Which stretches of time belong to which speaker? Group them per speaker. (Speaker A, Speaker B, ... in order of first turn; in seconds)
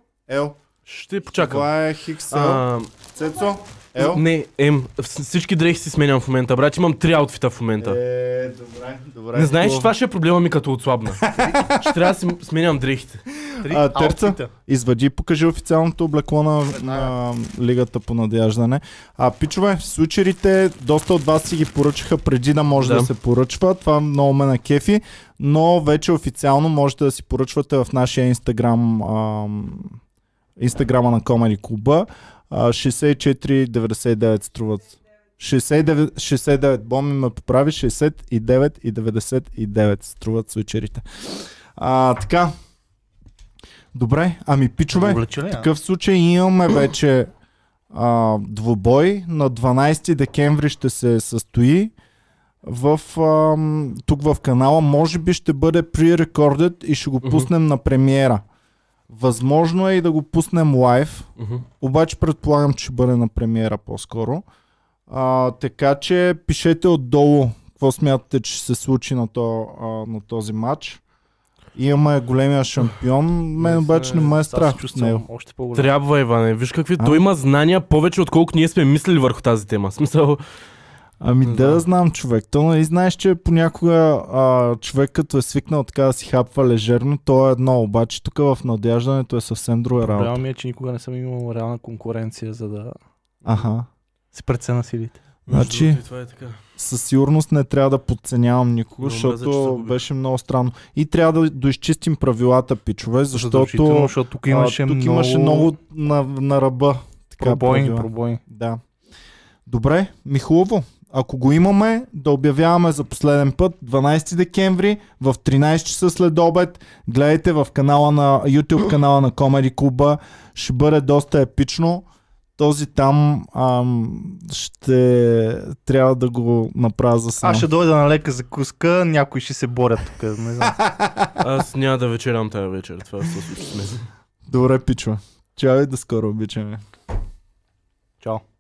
Speaker A: 0.3-0.6, 1.4-4.2, 7.8-9.9, 11.2-12.1, 13.4-30.0, 30.6-41.0, 41.8-42.5, 43.9-47.3, 47.9-51.9, 52.6-58.4, 59.1-61.3, 61.8-64.4, 65.1-71.0, 71.8-75.2, 77.0-77.2, 81.2-90.4, 93.5-93.9, 95.5-96.0, 96.8-108.8, 109.7-122.1, 122.6-127.7, 130.8-131.3, 134.5-136.8
Speaker B: 0.9-1.7, 2.3-3.1, 4.0-8.0, 9.3-13.2, 22.8-23.1, 57.2-57.5, 61.4-61.7, 73.6-74.3, 75.7-80.4, 81.4-81.8, 95.5-96.6, 99.0-100.0, 131.4-134.1
Speaker C: 13.6-14.5, 16.9-17.1, 44.9-45.7, 73.9-76.0, 90.0-93.0, 94.3-95.2, 103.3-105.7, 107.4-108.4, 127.4-130.8